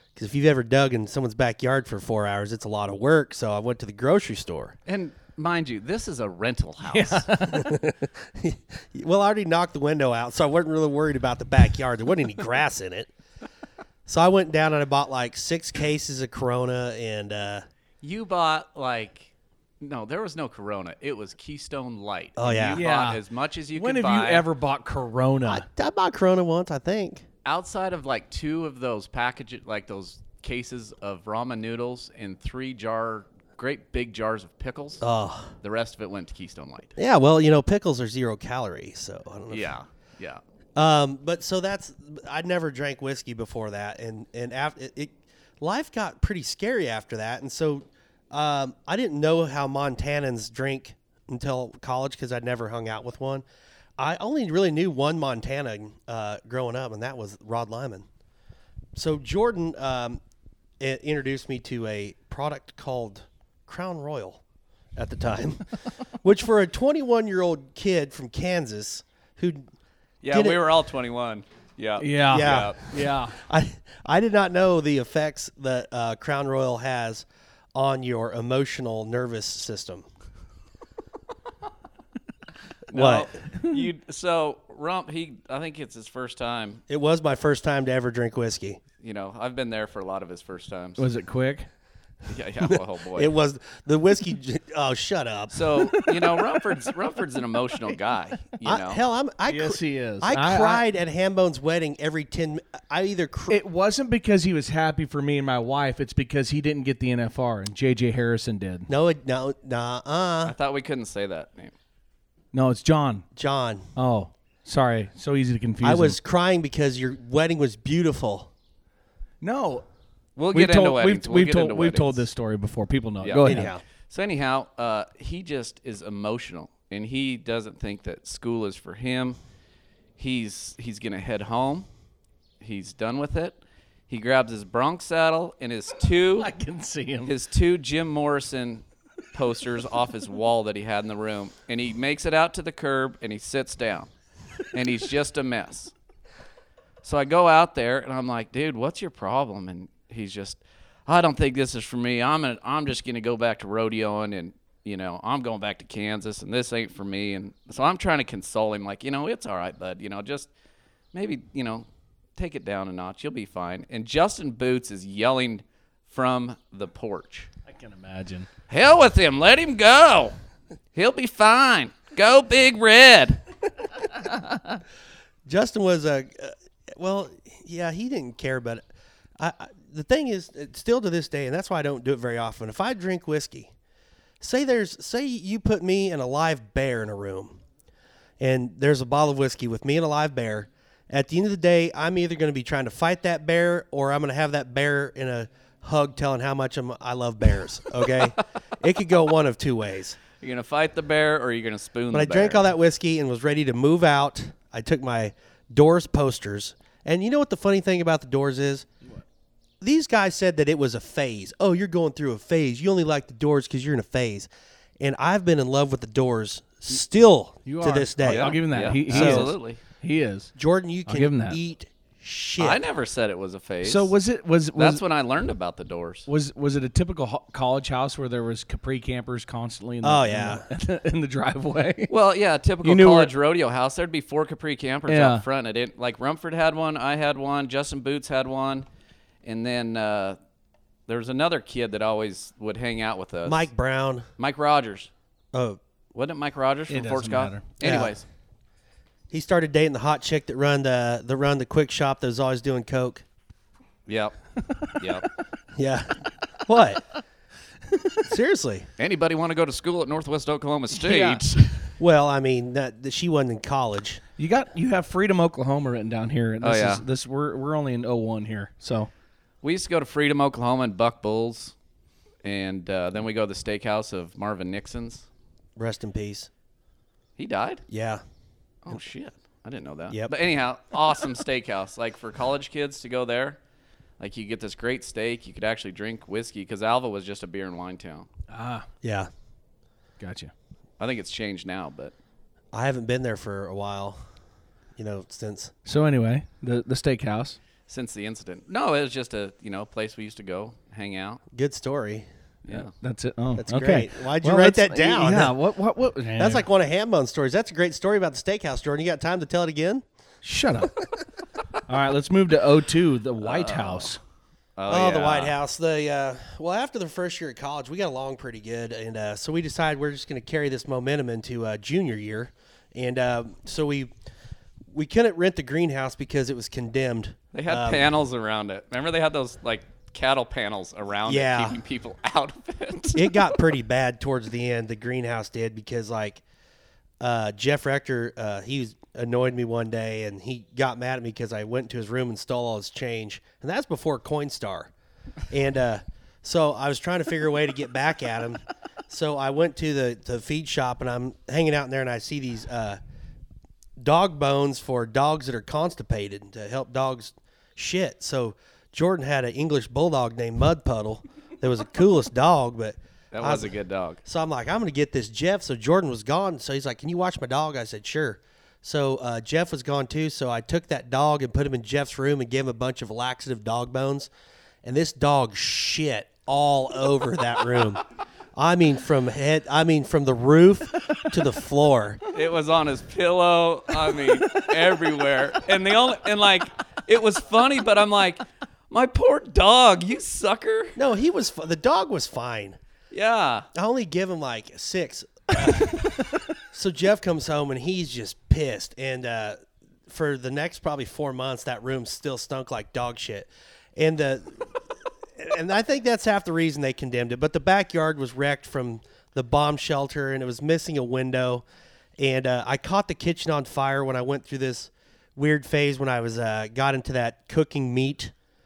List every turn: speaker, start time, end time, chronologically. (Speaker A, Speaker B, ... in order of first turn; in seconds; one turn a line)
Speaker A: 0.1-4.8
Speaker B: 4.9-7.3
Speaker C: 6.8-7.8
Speaker A: 7.5-13.1
Speaker A: 14.1-17.6
Speaker B: 18.0-24.4
Speaker A: 22.4-22.8
Speaker C: 22.7-23.2
Speaker C: 23.7-25.6
Speaker A: 25.4-27.2
Speaker B: 27.4-35.0
Speaker A: 35.0-35.5
Speaker B: 35.6-36.9
Speaker A: 37.0-39.7
Speaker B: 39.5-40.4
Speaker A: 40.8-53.4
Speaker A: 54.0-58.0
Speaker A: 58.9-60.2
Speaker A: 60.8-64.4
Speaker A: 65.0-65.6
Speaker A: 66.2-69.6
Speaker B: 70.2-72.8
Speaker A: 70.3-70.6
Speaker C: 72.0-73.3
Speaker A: 72.3-80.0
Speaker B: 82.9-86.8
Speaker A: 82.9-83.3
Speaker A: 86.9-88.8
Speaker B: 89.0-91.0
Speaker C: 91.0-91.7
Speaker B: 92.3-93.3
Speaker A: 92.6-95.5
Speaker B: 95.5-99.0
Speaker C: 95.8-96.4
Speaker A: 98.6-103.6
Speaker C: 99.5-100.8
Speaker C: 103.5-108.9
Speaker A: 108.9-110.5
Speaker B: 110.4-111.7
Speaker C: 112.5-113.2
Speaker A: 113.3-113.9
Speaker C: 114.0-116.2
Speaker A: 115.8-118.5
Speaker C: 119.4-119.8
Speaker B: 120.3-122.2
Speaker C: 120.5-123.7
Speaker B: 123.2-129.4
Speaker A: 123.4-123.8
Speaker B: 130.2-131.9
Speaker B: 132.6-133.6
Speaker B: 134.1-136.5
Speaker C: 136.4-137.3
Speaker B: 137.2-144.1
Speaker B: 144.7-145.9
Speaker B: 147.0-160.5
Speaker B: 161.1-167.5
Speaker C: 167.7-168.5
Speaker B: 168.7-170.3
Speaker B: 170.9-173.4
Speaker A: 175.5-178.8
Speaker A: 179.4-183.7
Speaker A: 184.4-187.6
Speaker A: 188.4-200.2
Speaker B: 200.4-202.7
Speaker A: 202.1-208.9
Speaker A: 209.8-214.5
Speaker A: 215.0-219.5
Speaker C: 217.7-220.5
Speaker B: 218.2-219.8
Speaker A: 220.6-222.8
Speaker C: 221.1-221.6
Speaker B: 222.6-224.1
Speaker C: 223.8-225.0
Speaker B: 224.8-226.3
Speaker C: 226.3-232.1
Speaker A: 230.0-230.7
Speaker B: 232.1-238.8
Speaker C: 232.8-233.3
Speaker C: 235.1-235.4
Speaker B: 239.4-240.4
Speaker B: 241.1-243.7
Speaker A: 243.4-244.3
Speaker B: 244.4-245.1
Speaker A: 245.5-245.8
Speaker B: 246.1-248.2
Speaker C: 246.9-247.7
Speaker A: 247.8-248.1
Speaker A: 249.3-253.2
Speaker B: 254.1-254.3
Speaker B: 254.9-255.3
Speaker A: 255.8-257.0
Speaker A: 258.2-258.9
Speaker B: 259.0-261.9
Speaker C: 261.0-261.4
Speaker A: 262.0-264.2
Speaker C: 264.4-269.1
Speaker B: 266.6-267.0
Speaker B: 269.6-271.7
Speaker B: 272.4-275.2
Speaker A: 275.8-276.5
Speaker B: 277.4-277.8
Speaker A: 277.9-278.2
Speaker B: 278.8-283.6
Speaker B: 284.2-288.3
Speaker C: 288.5-288.9
Speaker A: 289.0-289.3
Speaker C: 290.2-290.5
Speaker B: 291.0-292.1
Speaker A: 292.7-294.2
Speaker A: 295.0-295.7
Speaker C: 295.8-297.6
Speaker B: 297.9-301.4
Speaker A: 301.5-302.3
Speaker B: 302.6-302.9
Speaker C: 302.7-306.6
Speaker A: 303.6-305.6
Speaker A: 306.4-310.0
Speaker C: 310.4-310.9
Speaker C: 311.9-314.2
Speaker B: 313.4-314.1
Speaker B: 314.8-315.5
Speaker A: 314.9-324.1
Speaker A: 324.9-328.1
Speaker B: 327.5-333.4
Speaker A: 331.2-331.8
Speaker A: 333.1-336.4
Speaker A: 337.2-344.9
Speaker A: 345.5-353.0
Speaker A: 354.0-374.3
Speaker B: 363.3-364.2
Speaker A: 374.8-378.0
Speaker A: 378.6-382.2
Speaker B: 382.3-391.0
Speaker A: 390.9-392.8
Speaker B: 393.1-393.7
Speaker A: 393.7-396.1
Speaker A: 396.7-404.8
Speaker A: 405.4-411.6
Speaker A: 412.2-418.3